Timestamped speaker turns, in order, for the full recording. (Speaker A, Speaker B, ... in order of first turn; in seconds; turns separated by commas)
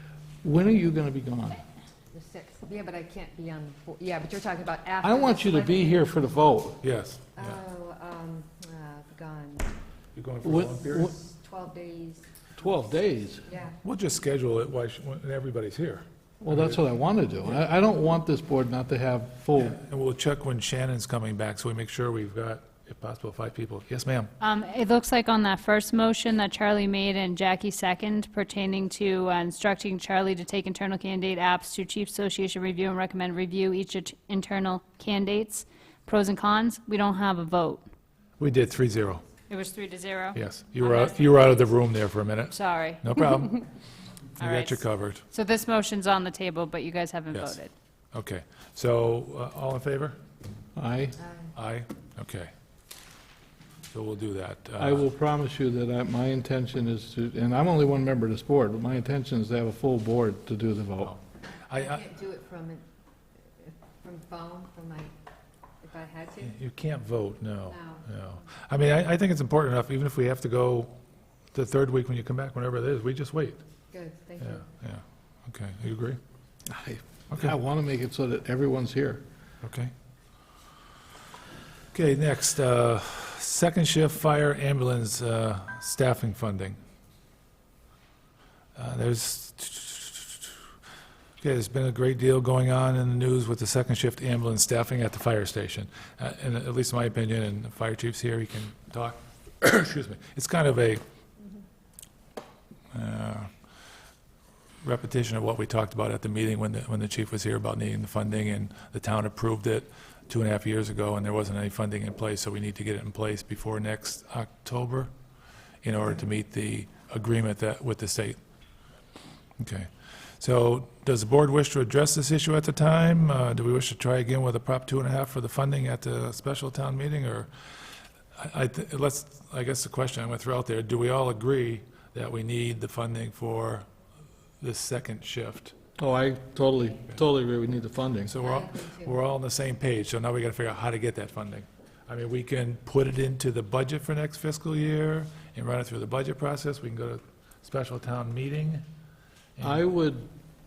Speaker A: 0.4-1.6, Speaker B: 2.1-6.1, Speaker A: 5.0-6.8, Speaker C: 6.8-7.5, Speaker B: 7.3-9.7, Speaker C: 10.1-11.1, Speaker A: 10.4-11.1, Speaker B: 11.1-12.5, Speaker A: 12.6-13.5, Speaker B: 13.4-13.8, Speaker C: 13.8-16.8, Speaker A: 16.4-19.8, Speaker C: 19.6-24.3, Speaker D: 24.4-37.8, Speaker C: 38.4-39.2, Speaker D: 39.5-41.6, Speaker C: 40.3-43.6, Speaker D: 42.5-43.6, Speaker C: 44.4-45.2, Speaker D: 44.4-47.7, Speaker C: 48.1-50.2, Speaker A: 50.8-51.2, Speaker B: 51.2-51.5, Speaker C: 51.5-52.5, Speaker C: 53.9-55.0, Speaker A: 54.8-61.2, Speaker C: 61.0-62.0, Speaker B: 61.7-62.9, Speaker B: 63.6-65.1, Speaker B: 65.8-66.6, Speaker C: 66.4-71.0, Speaker B: 67.7-68.1, Speaker C: 71.5-73.6, Speaker B: 73.9-74.7, Speaker C: 74.4-76.2, Speaker A: 76.7-79.2, Speaker C: 79.6-79.9, Speaker C: 81.9-86.8, Speaker C: 88.8-90.5, Speaker C: 91.4-101.0, Speaker C: 102.9-103.5, Speaker C: 104.8-115.1, Speaker C: 115.8-118.4, Speaker C: 119.6-127.5, Speaker C: 128.3-133.8, Speaker C: 134.6-135.7, Speaker A: 136.0-138.3, Speaker C: 138.3-148.8, Speaker B: 138.4-139.1, Speaker C: 149.6-149.8, Speaker A: 149.6-150.3